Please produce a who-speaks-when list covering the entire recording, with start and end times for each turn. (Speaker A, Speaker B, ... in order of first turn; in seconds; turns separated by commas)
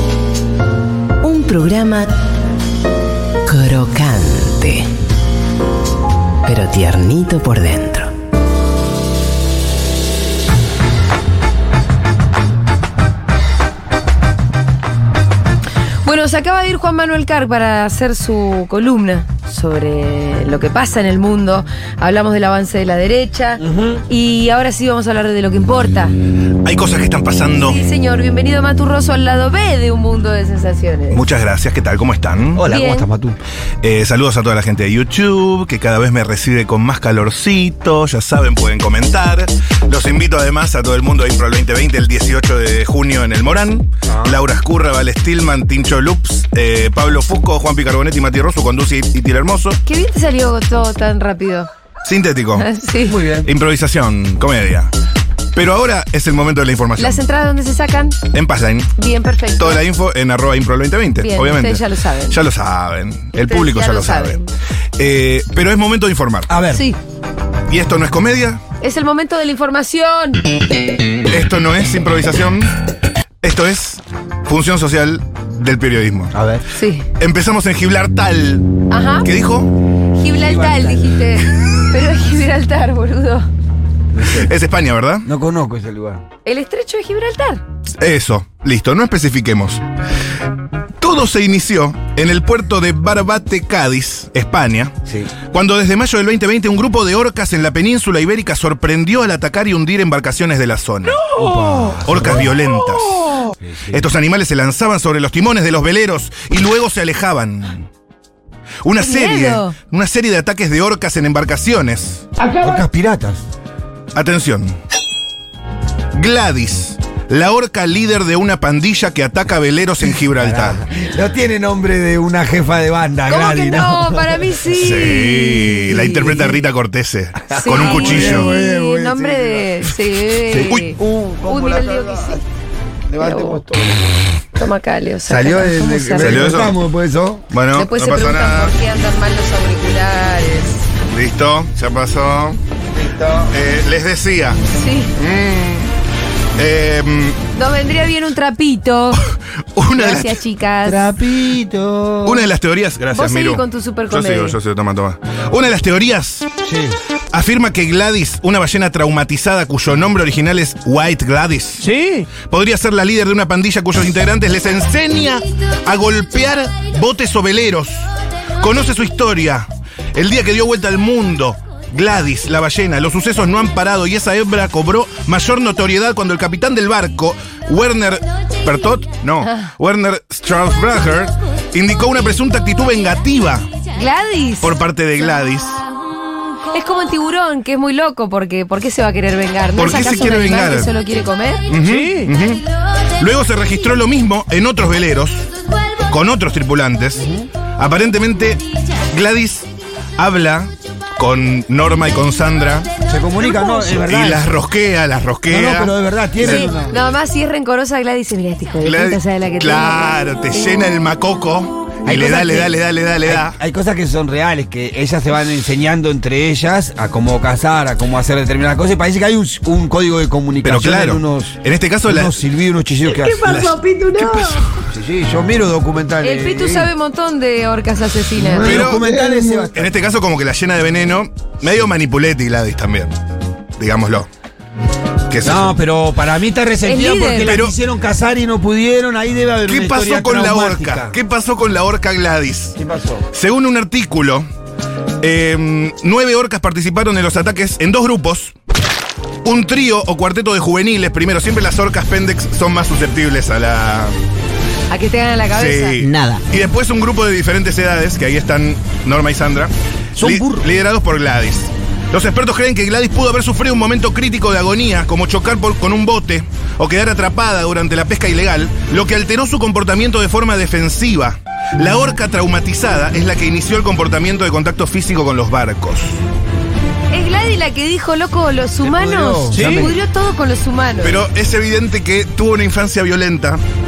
Speaker A: 1.2-2.1, Speaker A: 3.5-4.8, Speaker A: 6.5-8.1, Speaker B: 16.0-26.1, Speaker C: 23.6-24.0, Speaker D: 26.6-27.8, Speaker B: 27.5-31.3, Speaker D: 31.1-32.6, Speaker C: 32.5-33.4, Speaker B: 32.6-33.1, Speaker D: 33.8-49.8, Speaker C: 44.1-44.4, Speaker B: 49.8-51.7, Speaker D: 52.0-52.7, Speaker B: 52.6-53.2, Speaker C: 53.1-53.5, Speaker D: 53.4-54.9, Speaker D: 55.5-57.2, Speaker B: 57.0-58.2, Speaker D: 58.3-58.9, Speaker B: 59.0-59.8, Speaker D: 59.6-64.4, Speaker B: 61.2-62.4, Speaker B: 63.4-64.5, Speaker D: 65.0-66.5, Speaker C: 66.5-66.8, Speaker B: 66.7-67.0, Speaker D: 67.7-68.6, Speaker B: 68.8-70.4, Speaker D: 71.3-72.7, Speaker D: 73.4-76.3, Speaker C: 76.3-76.6, Speaker B: 76.7-77.1, Speaker D: 77.2-78.7, Speaker B: 78.9-79.3, Speaker D: 79.2-79.7, Speaker B: 80.1-83.5, Speaker C: 80.3-81.2, Speaker C: 84.1-84.5, Speaker D: 84.3-85.3, Speaker C: 85.2-86.2, Speaker B: 86.4-87.6, Speaker D: 88.0-89.8, Speaker D: 91.0-94.9, Speaker C: 95.0-95.3, Speaker D: 95.5-101.3, Speaker C: 101.3-102.5, Speaker D: 102.0-107.9, Speaker C: 103.6-104.0, Speaker D: 108.8-112.2, Speaker B: 109.0-109.7, Speaker C: 112.5-113.4, Speaker D: 114.1-114.7, Speaker D: 116.1-120.8, Speaker C: 120.3-124.6, Speaker B: 123.3-126.5, Speaker D: 124.7-128.6, Speaker C: 126.1-126.6, Speaker C: 127.5-129.7, Speaker B: 127.5-132.4, Speaker D: 130.5-130.9, Speaker C: 130.5-132.4, Speaker C: 133.1-134.0, Speaker B: 133.2-133.6, Speaker B: 134.6-136.6, Speaker C: 135.3-137.5, Speaker D: 136.2-136.8, Speaker D: 137.5-138.7, Speaker B: 137.7-140.8, Speaker D: 141.1-142.6, Speaker C: 142.9-143.5, Speaker D: 143.5-144.6, Speaker B: 144.7-145.1, Speaker D: 145.2-145.9, Speaker D: 146.6-147.4, Speaker B: 147.5-149.2, Speaker D: 149.7-150.4, Speaker B: 149.9-151.1, Speaker C: 150.8-152.5, Speaker D: 152.2-156.5, Speaker B: 153.1-154.6, Speaker C: 156.6-156.9, Speaker D: 157.3-168.1, Speaker D: 168.6-183.7, Speaker B: 179.4-179.7, Speaker B: 183.9-184.7, Speaker D: 184.6-185.8, Speaker B: 186.7-191.7, Speaker D: 189.8-190.9, Speaker D: 191.7-192.7, Speaker D: 193.2-195.5, Speaker D: 196.1-197.2, Speaker C: 197.2-197.5, Speaker D: 197.8-202.9, Speaker C: 203.1-204.6, Speaker D: 203.9-206.7, Speaker C: 205.5-207.0, Speaker B: 206.4-210.9, Speaker D: 208.8-213.6, Speaker C: 212.0-223.6, Speaker D: 220.6-222.4, Speaker B: 223.4-224.3, Speaker D: 223.4-224.8, Speaker C: 224.9-226.9, Speaker B: 226.2-228.9, Speaker C: 228.3-229.9, Speaker D: 228.6-229.2, Speaker D: 229.7-233.1, Speaker D: 233.8-234.3, Speaker D: 235.3-235.7, Speaker C: 235.4-241.1, Speaker B: 236.8-237.6, Speaker D: 237.4-237.7, Speaker D: 239.6-242.8, Speaker C: 242.8-243.3, Speaker D: 243.3-244.4, Speaker D: 245.2-248.5, Speaker D: 249.4-254.1, Speaker B: 254.9-256.0, Speaker D: 255.5-276.2, Speaker C: 260.2-260.7, Speaker B: 277.1-281.2, Speaker C: 278.8-279.9, Speaker D: 279.5-279.9, Speaker D: 281.0-283.6